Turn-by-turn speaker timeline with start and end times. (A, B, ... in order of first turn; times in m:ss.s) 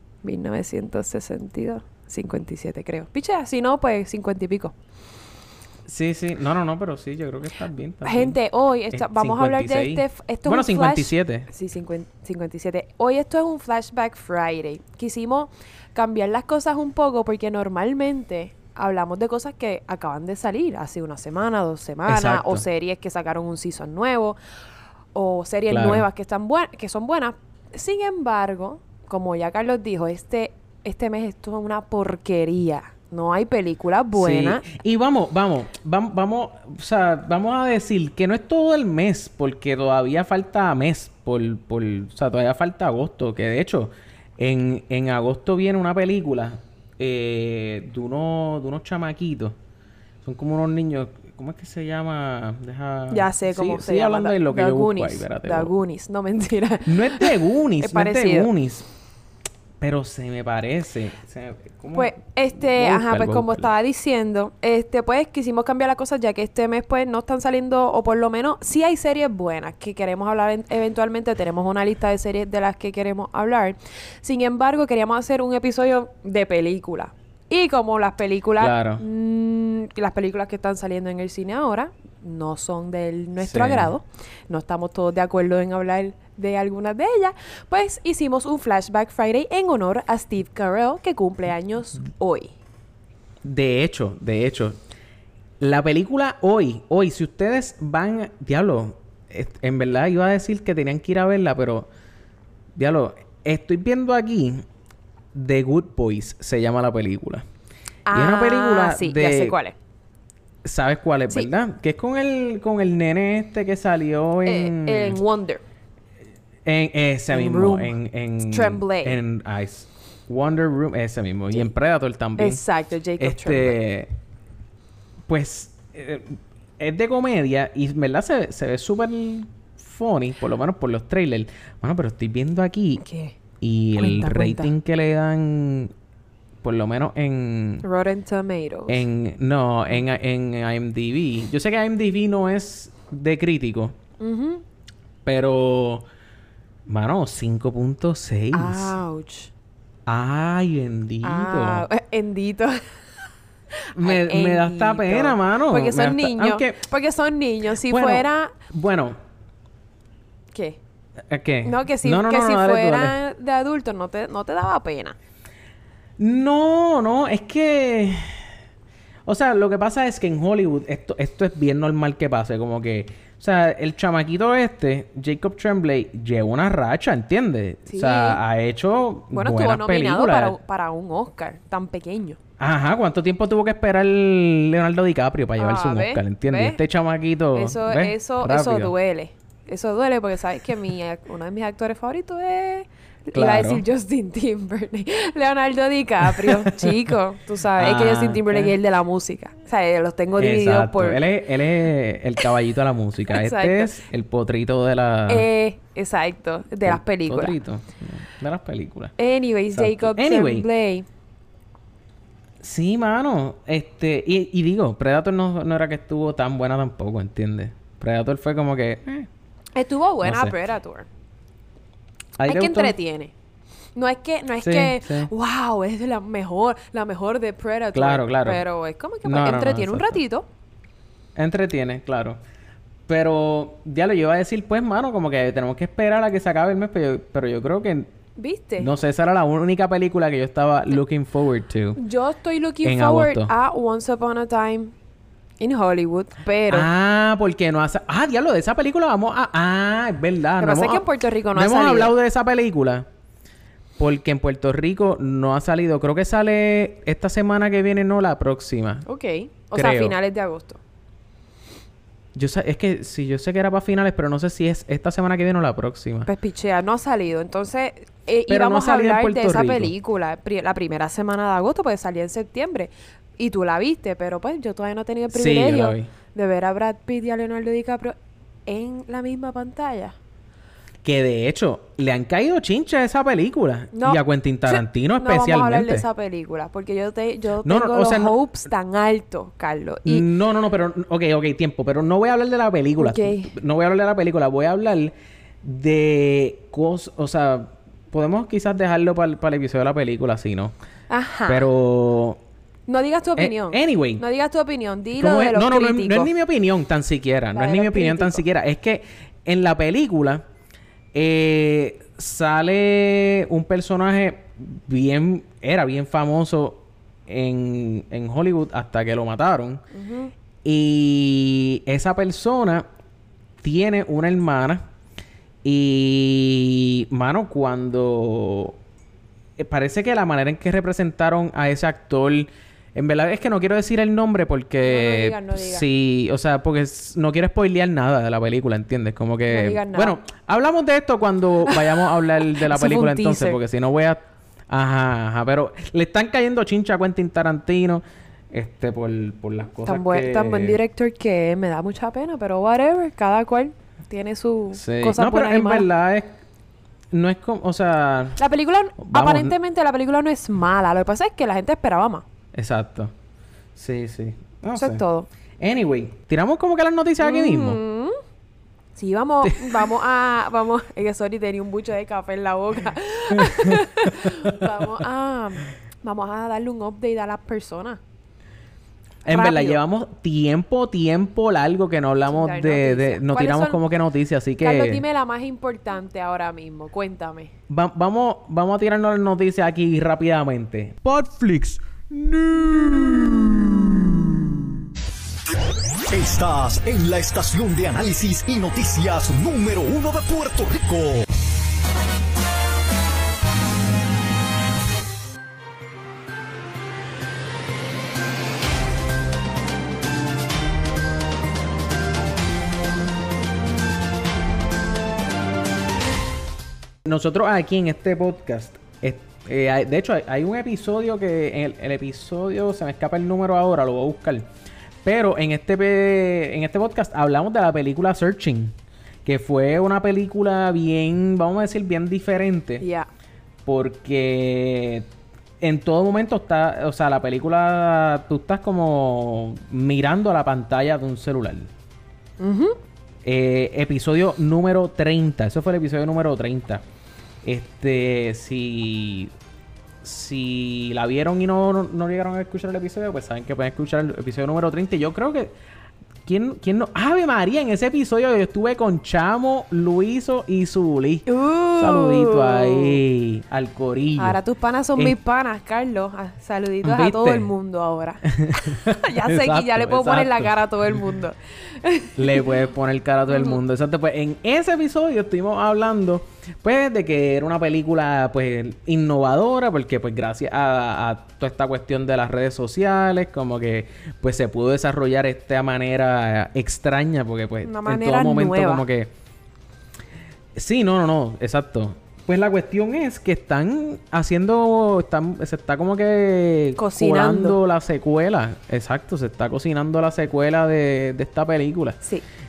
0:00.2-0:04.7 A
0:05.9-0:08.4 B
0:08.0-0:24.4 A
0:08.9-0:11.5 B
0:22.1-0:22.6 B
0:25.2-0:34.6 A
0:25.7-0:26.0 B
0:34.1-0:49.6 B
0:50.2-0:55.7 B
0:53.1-0:58.5 A
0:56.8-0:58.9 B
0:59.8-1:03.7 B
1:01.9-1:32.5 A
1:18.6-1:19.0 B
1:23.4-1:24.0 B
1:33.4-1:34.8 B
1:35.6-1:41.9 B
1:42.8-1:44.6 B
1:45.3-1:47.5 B
1:48.1-1:49.8 A
1:48.1-1:49.6 B
1:50.6-1:55.2 B
1:54.4-1:55.6 A
1:56.6-2:02.6 B
1:57.3-1:59.2 A
2:02.4-2:03.8 A
2:03.2-2:04.1 B
2:05.3-2:13.0 B
2:13.0-2:13.4 A
2:13.6-2:15.9 B
2:14.0-2:14.7 A
2:16.6-2:17.8 B
2:17.8-2:19.0 A
2:18.9-2:24.0 B
2:24.2-2:24.6 A
2:25.2-2:26.1 B
2:26.9-2:29.0 B
2:28.5-2:29.5 A
2:30.1-2:31.9 B
2:31.2-2:33.0 A
2:34.0-2:38.5 A
2:34.0-2:36.8 B
2:37.8-2:39.2 B
2:40.5-2:40.8 A
2:41.3-2:43.2 B
2:41.6-2:45.2 A
2:46.2-2:48.4 B
2:49.3-3:00.6 B
2:57.9-2:58.4 A
2:59.3-3:02.4 A
3:02.6-3:08.9 B
3:05.6-3:06.8 A
3:07.5-3:21.2 A
3:13.3-3:13.8 B
3:16.2-3:17.1 B
3:17.7-3:18.7 B
3:20.4-3:25.5 B
3:23.3-3:24.0 A
3:25.3-3:27.6 A
3:26.8-3:29.1 B
3:29.2-3:31.1 A
3:29.7-3:30.7 B
3:32.6-3:39.3 B
3:39.8-3:41.1 A
3:40.2-3:40.6 B
3:42.4-3:43.0 B
3:42.5-3:43.3 A
3:44.0-3:50.5 A
3:44.6-3:45.3 B
3:47.9-3:48.6 B
3:49.2-3:50.2 B
3:51.4-3:52.4 B
3:53.1-3:58.1 B
3:58.4-3:58.9 A
3:58.8-4:02.0 B
4:02.0-4:04.9 A
4:02.8-4:03.5 B
4:05.6-4:06.9 A
4:06.7-4:13.1 B
4:10.6-4:12.1 A
4:14.0-4:19.0 B
4:19.1-4:20.8 A
4:19.7-4:20.2 B
4:22.3-4:26.3 B
4:26.3-4:38.2 A
4:28.5-4:29.9 B
4:35.3-4:36.1 B
4:38.7-4:40.2 A
4:41.0-4:46.1 B
4:43.9-4:50.3 A
4:47.6-4:48.4 B
4:50.0-5:00.7 B
4:53.0-4:53.5 A
5:01.1-5:01.7 A
5:01.5-5:02.4 B
5:02.9-5:06.3 A
5:03.4-5:04.2 B
5:05.1-5:10.4 B
5:07.6-5:08.4 A
5:11.1-5:19.8 B
5:19.9-5:20.3 A
5:20.6-5:22.9 B
5:23.6-5:24.9 B
5:25.6-5:28.8 B
5:29.6-5:50.8 B
5:34.8-5:35.8 A
5:39.5-5:40.2 A
5:42.6-5:43.6 A
5:49.8-5:55.9 A
5:54.7-5:56.4 B
5:57.1-5:58.4 B
5:58.4-6:02.2 A
5:59.0-5:59.6 B
6:02.5-6:03.1 B
6:03.8-6:05.0 B
6:04.8-6:05.3 A
6:05.6-6:07.8 B
6:07.2-6:08.2 A
6:09.0-6:18.0 A
6:09.4-6:09.9 B
6:13.4-6:14.7 B
6:19.2-6:19.8 A
6:19.3-6:25.0 B
6:22.3-6:23.8 A
6:24.6-6:27.5 A
6:27.7-6:34.2 B
6:36.1-6:41.2 C
6:57.0-7:04.5 B
7:05.0-7:12.8 B
7:12.8-7:13.1 A
7:13.7-7:15.1 B
7:15.6-7:21.7 B
7:22.4-7:22.8 A
7:23.2-7:26.8 B
7:27.4-7:29.3 B
7:30.0-7:35.5 B
7:36.3-7:44.4 B
7:41.3-7:43.0 A
7:44.2-7:52.5 A
7:46.8-7:47.5 B
7:48.3-7:51.0 B
7:52.2-8:09.1 B
7:53.3-7:53.6 A
8:07.6-8:08.8 A
8:10.6-8:22.0 B
8:16.8-8:17.6 A